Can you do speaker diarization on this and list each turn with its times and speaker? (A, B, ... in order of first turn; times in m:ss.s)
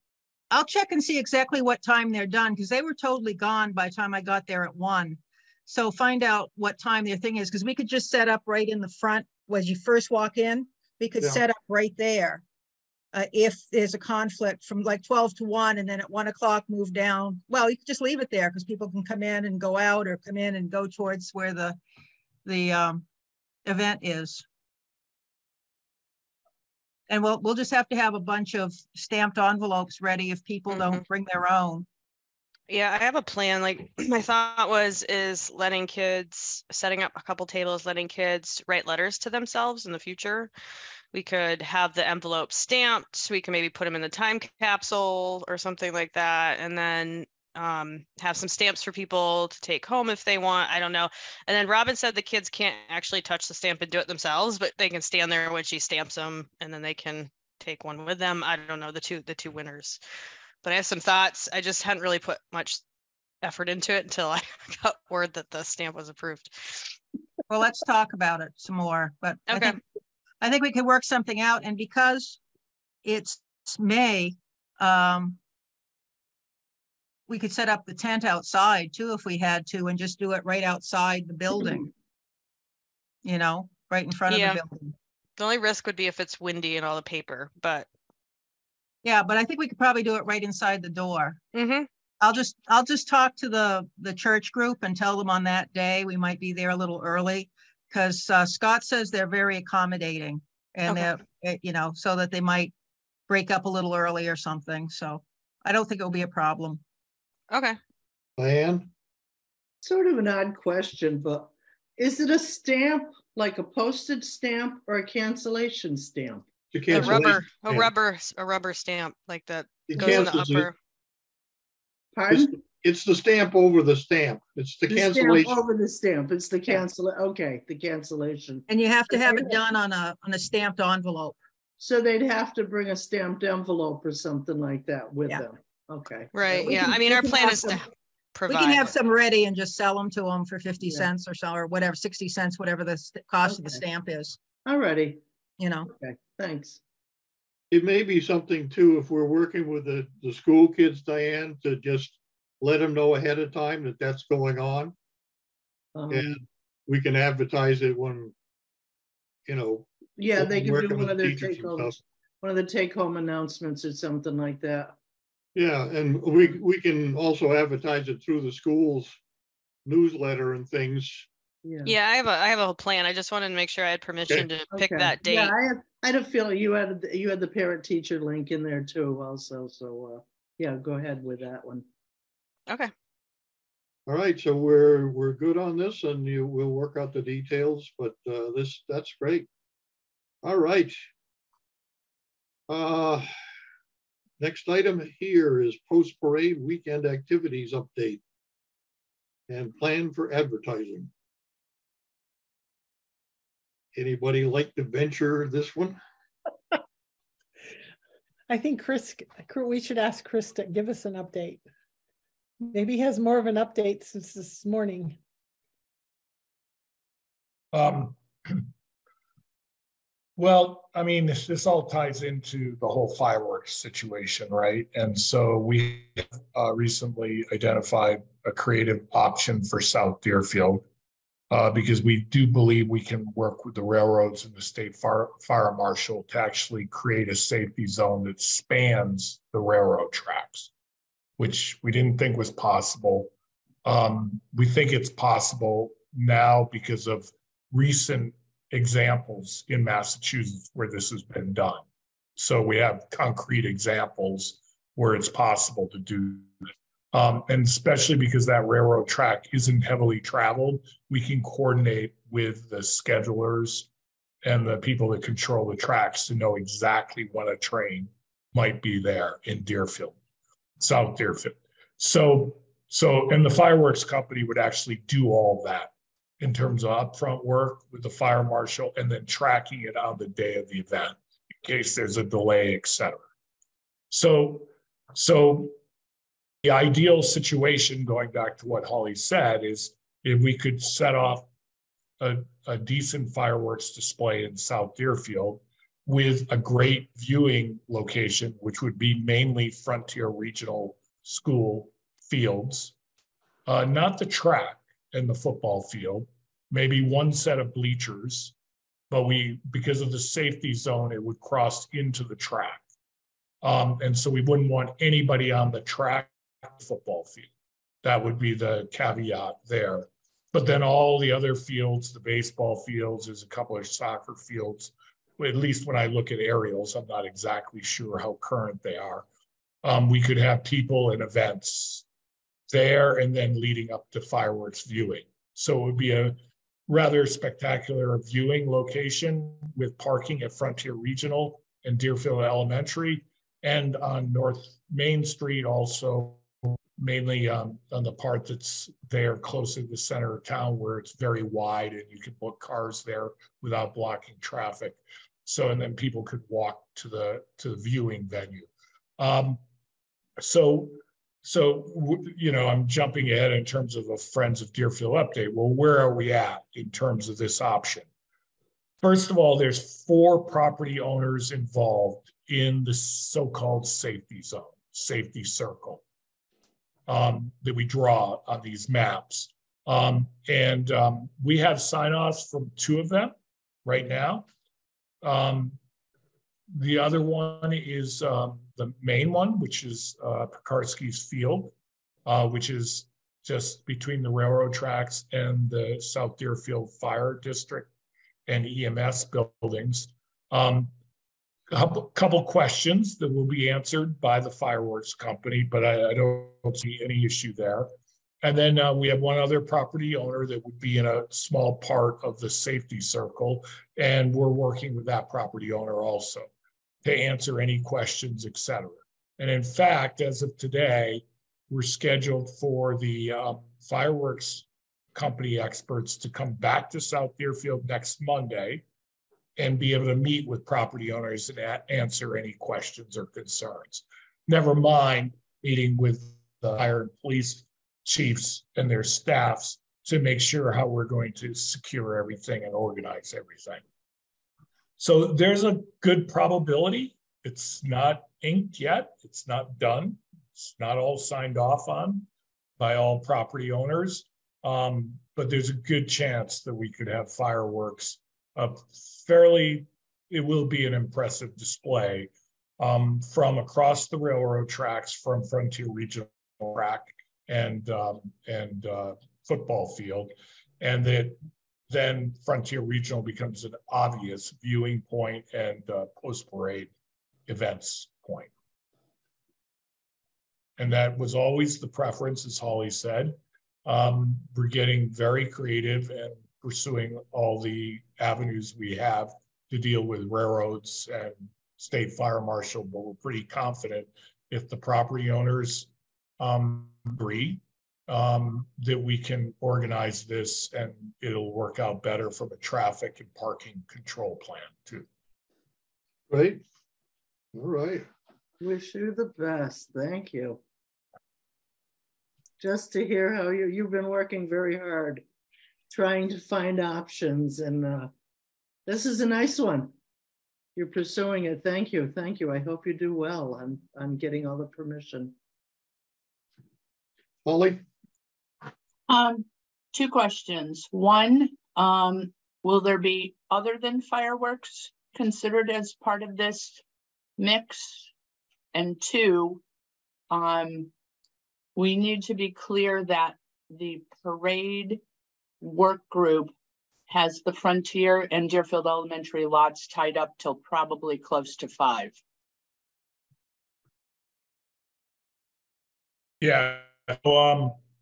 0:00.5-0:12.4 A
0:13.1-0:21.8 A
0:22.4-0:23.1 A
0:23.6-0:24.4 A
0:27.1-0:31.9 A
0:30.7-0:31.0 B
0:32.7-0:40.5 B
0:41.1-1:00.0 B
1:00.6-1:02.8 B
1:03.4-1:07.0 B
1:07.5-1:09.8 A
1:09.5-1:09.8 B
1:10.4-1:12.4 A
1:13.0-1:15.4 A
1:17.3-1:21.9 A
1:23.2-1:24.9 A
1:24.3-1:24.6 B
1:25.4-1:27.9 B
1:29.0-1:31.4 A
1:31.5-1:31.9 B
1:32.2-1:42.7 A
1:40.9-1:41.1 B
1:43.3-1:46.8 A
1:47.5-1:47.8 B
1:48.4-1:48.9 C
1:49.8-1:57.3 D
1:56.7-1:57.9 C
1:56.9-2:00.8 B
1:59.9-2:00.7 C
2:00.0-2:00.3 D
2:02.1-2:02.5 D
2:02.3-2:05.6 C
2:04.9-2:09.6 D
2:08.7-2:11.4 A
2:11.8-2:17.8 D
2:16.3-2:19.0 B
2:18.5-2:24.4 A
2:23.4-2:23.8 D
2:24.6-2:25.2 D
2:25.6-2:25.9 A
2:25.9-2:26.8 D
2:27.7-2:34.9 C
2:36.0-2:36.4 D
2:36.1-2:38.3 C
2:39.5-2:42.0 C
2:40.2-2:45.0 D
2:45.6-2:49.2 C
2:49.9-2:51.3 C
2:51.6-2:52.0 D
2:51.8-2:55.5 B
2:54.7-3:01.9 D
3:04.1-3:09.5 C
3:10.4-3:11.0 C
3:12.7-3:13.3 C
3:14.4-3:18.2 C
3:19.5-3:21.1 C
3:24.0-3:26.0 C
3:28.5-3:31.6 E
3:32.6-3:35.2 E
3:37.7-3:38.7 F
3:40.4-3:50.8 F
3:51.5-4:00.7 F
4:01.4-4:03.3 F
4:03.8-4:11.8 F
4:12.4-4:16.5 F
4:17.1-4:23.9 F
4:24.4-4:30.2 F
4:30.8-4:43.2 F
4:44.1-4:45.8 F
4:46.6-4:51.5 F
4:52.2-5:03.0 F
5:03.7-5:08.5 F
5:09.1-5:12.8 F
5:13.6-5:17.5 F
5:18.0-5:29.3 F
5:29.8-5:32.0 F
5:32.7-5:46.4 F
5:47.0-5:59.6 F
6:00.4-6:08.1 F
6:09.0-6:16.0 F
6:17.1-6:24.5 F
6:25.2-6:25.8 F
6:26.7-6:31.7 F
6:32.3-6:37.9 F
6:38.5-6:40.9 F
6:41.7-6:47.9 F
6:48.4-6:56.5 F
6:57.0-7:08.8 F
7:09.6-7:23.8 F
7:25.0-7:32.3 F
7:32.8-7:51.4 F
7:51.9-7:56.9 F
7:57.5-7:58.5 F
8:00.8-8:15.9 F
8:16.4-8:25.1 F
8:26.3-8:26.6 C
8:27.5-8:28.1 C
8:28.6-8:30.6 D
8:32.6-8:35.2 D
8:35.9-8:38.1 D
8:38.9-8:39.9 D
8:40.8-8:45.4 D
8:47.4-8:47.8 C
8:49.1-8:56.8 G
8:57.4-8:58.1 G
8:58.7-8:59.6 G
9:00.3-9:00.9 G
9:01.8-9:05.0 G
9:05.6-9:06.5 G
9:07.1-9:12.2 G
9:16.4-9:17.8 F